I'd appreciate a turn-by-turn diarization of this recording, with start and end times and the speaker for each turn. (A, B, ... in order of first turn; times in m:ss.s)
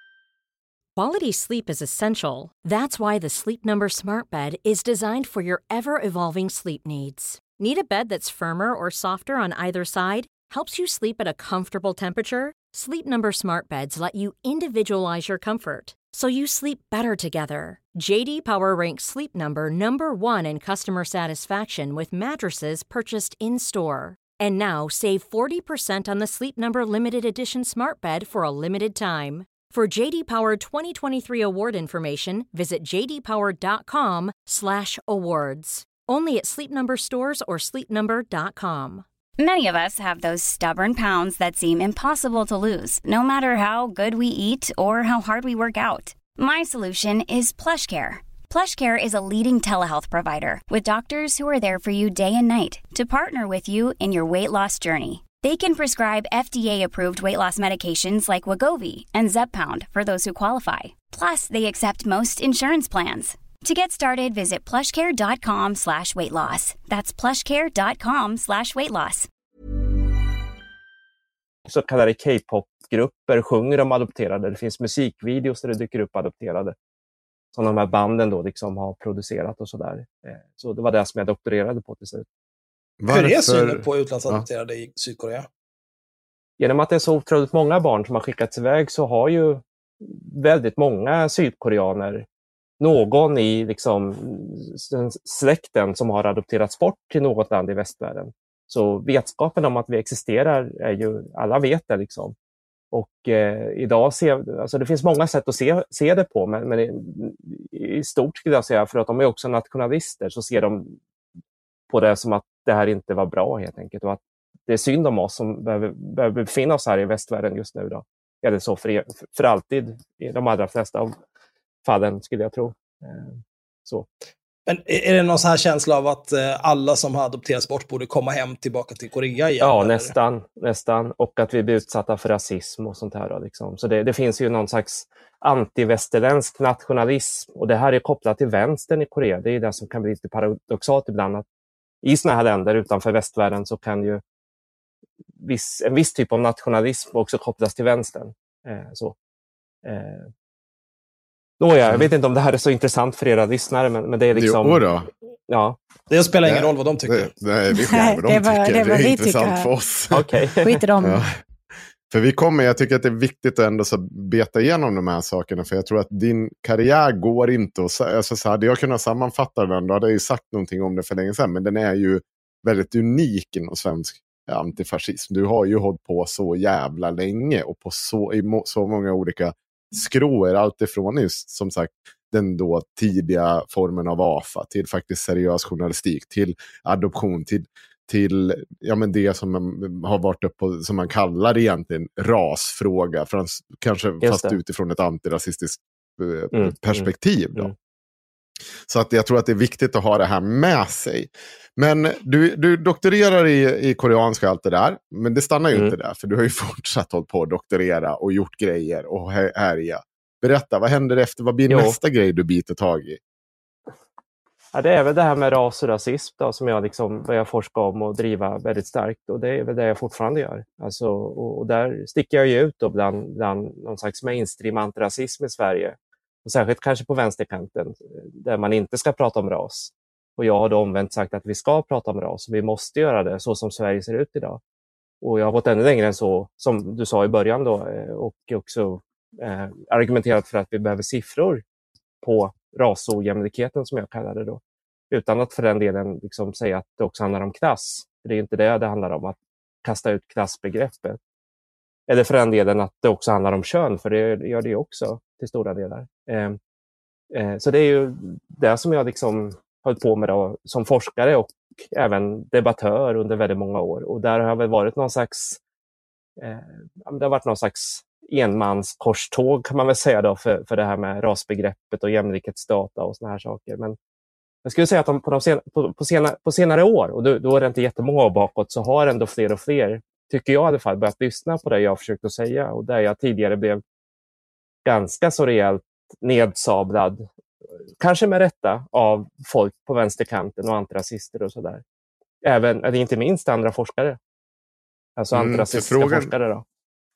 0:01.0-0:39.0 A
0:39.4-1:09.3 B
1:11.7-1:16.8 C
1:17.5-1:22.2 C
1:23.0-1:24.4 D
1:23.1-1:25.5 E
1:26.6-1:32.3 C
1:32.8-1:42.4 C
1:42.9-1:51.0 C
1:51.9-2:01.2 C
2:01.8-2:04.1 C
2:04.7-2:10.1 E
2:09.6-2:21.4 C
2:22.0-2:24.2 C
2:25.4-2:29.2 C
2:29.8-2:30.3 C
2:31.6-2:34.8 C
2:34.3-2:35.1 D
2:35.5-2:35.8 C
2:36.1-2:37.3 E
2:36.4-2:40.3 D
2:37.7-2:39.7 F
2:40.1-2:40.8 C
2:40.6-2:41.3 F
2:41.0-2:41.4 D
2:42.1-3:17.7 D
3:14.2-3:14.6 C
3:16.5-3:17.7 C
3:18.9-3:33.2 D
3:31.7-3:32.0 C
3:34.7-3:54.6 C
3:55.2-4:01.6 C
4:02.2-4:11.2 C
4:12.1-4:16.6 C
4:17.3-4:25.6 C
4:26.4-4:34.0 C
4:34.6-4:43.8 C
4:44.8-4:47.3 C
4:48.0-4:51.8 C
4:52.4-4:54.2 C
4:55.2-4:56.6 C
4:55.3-4:56.3 D